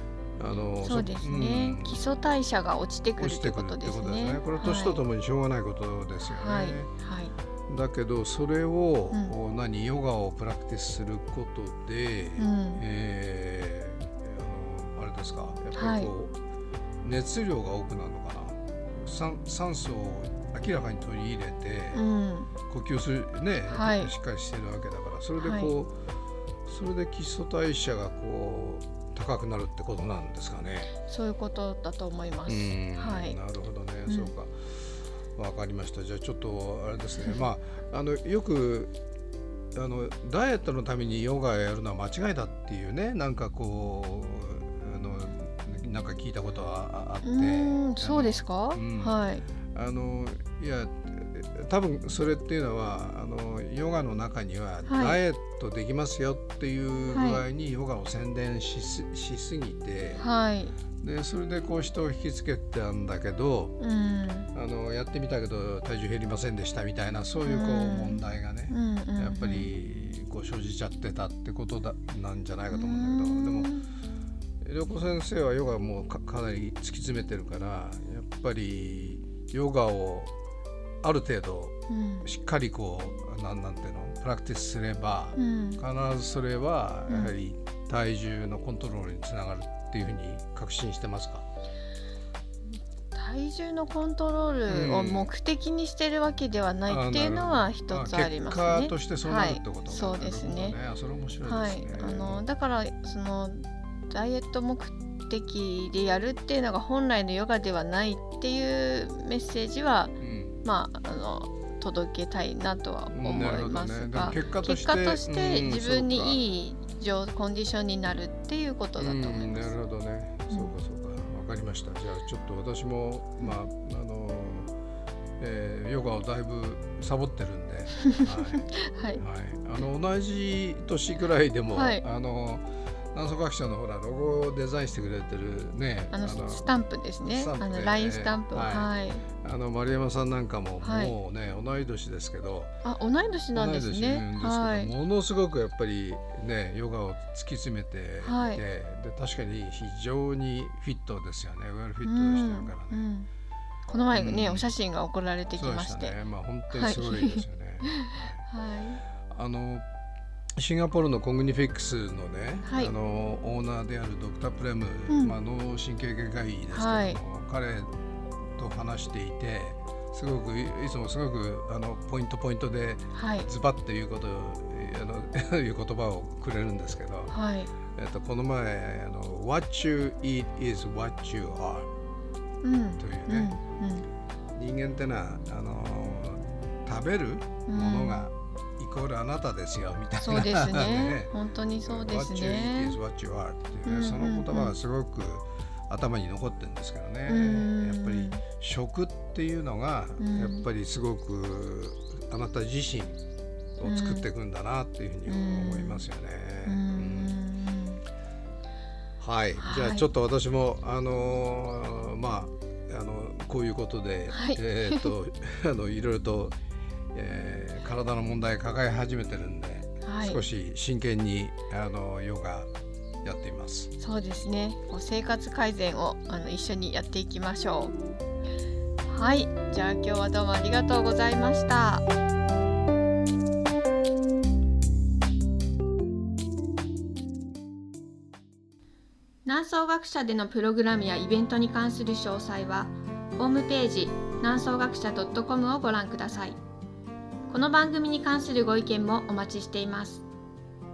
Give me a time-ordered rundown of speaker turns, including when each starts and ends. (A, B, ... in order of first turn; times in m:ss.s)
0:00.4-0:02.0 A
0:00.8-0:05.0 B
0:03.2-0:06.9 A
0:06.3-0:07.3 B
0:07.7-0:16.3 A
0:12.4-0:12.8 B
0:15.7-0:16.1 B
0:17.0-0:22.0 A
0:21.9-0:22.5 B
0:22.7-0:25.9 A
0:23.7-0:24.1 B
0:25.4-0:25.7 B
0:26.6-0:30.9 A
0:31.0-0:33.4 B
0:32.4-0:34.8 A
0:34.1-0:34.3 B
0:35.3-0:38.9 A
0:39.7-0:49.2 A
0:47.2-0:49.4 B
0:49.7-1:00.2 A
0:54.8-0:55.2 B
0:57.1-0:57.4 B
1:00.2-1:00.7 B
1:01.0-1:03.7 A
1:03.8-1:04.5 B
1:04.5-1:13.7 A
1:07.4-1:09.7 B
1:12.7-1:13.9 B
1:14.6-1:20.3 A
1:21.0-1:31.4 A
1:21.9-1:22.3 B
1:25.4-1:25.8 B
1:27.1-1:27.3 B
1:33.1-1:40.8 B
1:34.7-1:35.3 A
1:36.9-1:42.4 A
1:41.4-1:59.7 B
1:50.2-1:50.6 A
1:53.1-1:56.4 A
1:59.0-2:04.7 A
2:05.4-2:16.7 A
2:08.7-2:09.2 B
2:11.7-2:12.0 B
2:16.1-2:19.2 B
2:17.2-2:18.9 A
2:19.4-2:22.7 A
2:20.8-2:21.1 B
2:22.8-2:24.9 B
2:23.5-2:33.1 A
2:28.2-2:28.6 B
2:32.0-2:33.3 B
2:33.9-2:36.2 B
2:34.1-2:34.7 A
2:35.6-2:38.4 A
2:36.7-2:39.0 B
2:39.3-2:39.8 A
2:40.6-2:47.9 A
2:42.6-2:42.9 B
2:45.1-2:45.4 B
2:46.7-2:47.2 B
2:48.5-2:57.3 A
2:53.1-2:53.5 B
2:57.3-2:57.7 B
2:57.9-3:01.9 A
3:02.6-3:04.0 B
3:03.0-3:03.5 A
3:04.5-3:11.3 A
3:07.7-3:08.3 B
3:10.2-3:13.0 B
3:11.9-3:23.2 A
3:13.8-3:14.8 B
3:17.3-3:18.4 B
3:20.2-3:20.6 B
3:23.8-3:27.3 A
3:23.8-3:24.3 B
3:25.2-3:26.0 B
3:26.6-3:28.0 B
3:29.2-3:36.6 A
3:29.6-3:30.1 B
3:34.3-3:35.1 B
3:37.1-3:42.7 A
3:40.0-3:40.4 B
3:43.2-3:43.9 A
3:44.0-3:47.9 B
3:49.1-3:52.0 B
3:59.4-4:06.6 B
4:07.5-4:10.2 B